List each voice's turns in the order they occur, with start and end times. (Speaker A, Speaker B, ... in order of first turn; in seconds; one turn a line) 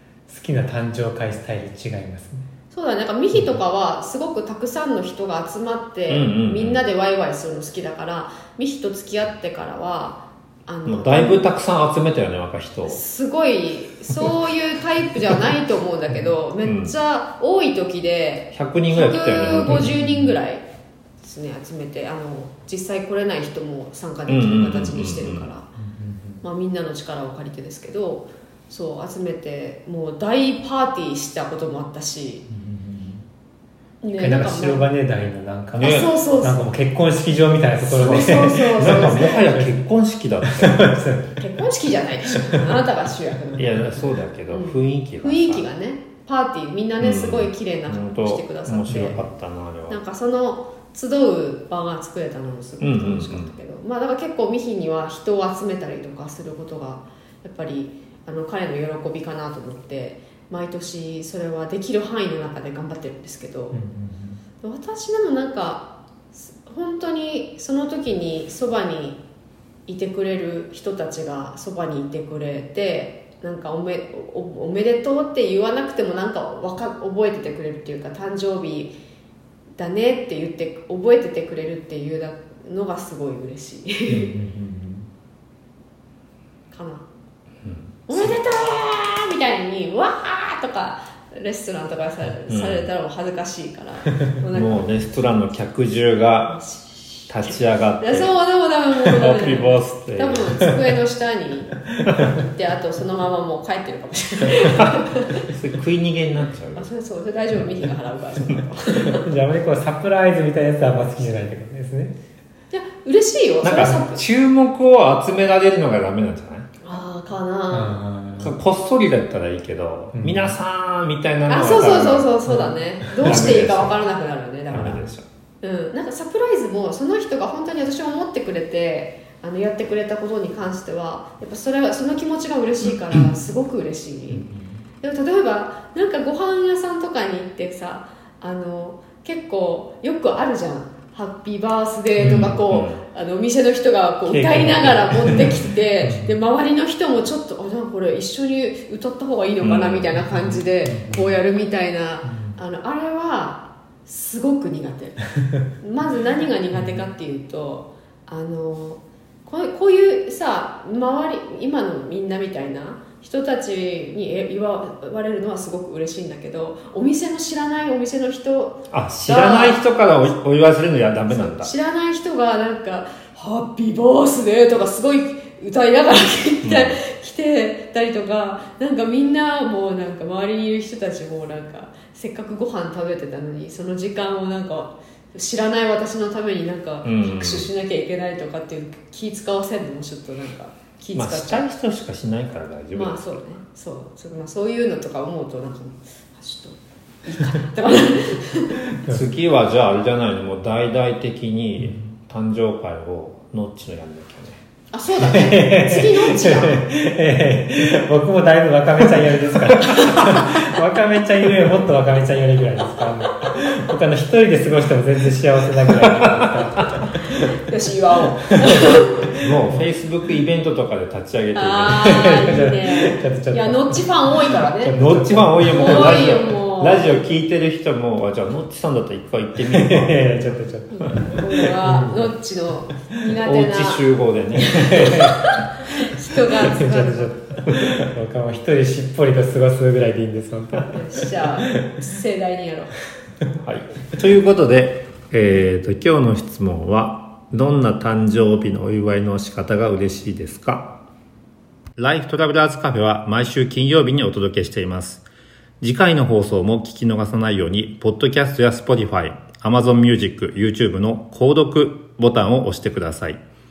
Speaker A: 0.3-2.5
Speaker B: 2.7-11.4
Speaker C: 6.1-6.8
Speaker C: 10.9-13.0
Speaker B: 12.9-20.6
Speaker C: 16.6-16.9
Speaker C: 18.5-20.0
Speaker A: 19.5-20.4
Speaker B: 21.2-25.7
Speaker C: 24.3-25.5
Speaker A: 25.8-26.4
Speaker B: 26.4-32.5
Speaker A: 32.5-33.2
Speaker B: 34.0-34.9
Speaker A: 34.2-39.8
Speaker B: 35.7-36.6
Speaker C: 35.8-36.1
Speaker B: 37.8-39.5
Speaker C: 38.8-41.0
Speaker A: 40.4-41.4
Speaker B: 41.4-49.2
Speaker C: 43.6-45.7
Speaker C: 47.0-50.0
Speaker B: 49.9-63.8
Speaker C: 52.8-53.5
Speaker A: 63.7-64.4
Speaker B: 64.6-69.2
Speaker B: 69.9-78.9
Speaker B: 79.8-84.3
Speaker A: 84.1-85.1
Speaker B: 86.7-87.0
Speaker C: 87.6-88.4
Speaker B: 88.1-94.9
Speaker C: 92.5-92.9
Speaker C: 94.5-96.6
Speaker B: 96.5-105.4
Speaker C: 97.3-98.3
Speaker C: 99.0-100.7
Speaker C: 104.8-106.9
Speaker B: 106.8-109.2
Speaker A: 109.2-112.2
Speaker B: 112.7-114.2
Speaker C: 113.6-116.7
Speaker B: 116.8-118.0
Speaker A: 117.7-118.5
Speaker C: 118.4-122.3
Speaker A: 120.1-120.5
Speaker B: 121.5-125.0
Speaker A: 122.5-122.7
Speaker C: 123.2-124.0
Speaker C: 124.7-125.2
Speaker B: 125.6-134.4
Speaker A: 134.3-134.8
Speaker B: 135.0-155.2
Speaker A: 142.2-142.6
Speaker C: 142.6-143.0
Speaker A: 144.3-146.4
Speaker C: 149.6-150.2
Speaker A: 150.2-151.4
Speaker A: 152.2-152.6
Speaker B: 155.8-169.8
Speaker A: 156.7-157.1
Speaker C: 168.9-171.7
Speaker B: 171.3-191.7
Speaker C: 176.6-177.0
Speaker C: 187.1-187.7
Speaker C: 191.2-193.4
Speaker B: 192.9-198.8
Speaker C: 199.1-204.6
Speaker A: 201.8-202.1
Speaker B: 204.9-206.9
Speaker A: 205.2-217.5
Speaker B: 217.2-219.3
Speaker C: 219.4-222.0
Speaker B: 221.5-224.9
Speaker A: 221.9-226.4
Speaker C: 224.9-231.4
Speaker B: 225.6-227.2
Speaker A: 229.7-232.3
Speaker B: 230.9-234.1
Speaker C: 233.4-235.2
Speaker B: 234.6-237.3
Speaker A: 234.7-235.3
Speaker A: 236.6-241.8
Speaker B: 240.9-242.9
Speaker C: 243.6-251.0
Speaker C: 252.0-255.3
Speaker C: 255.8-263.4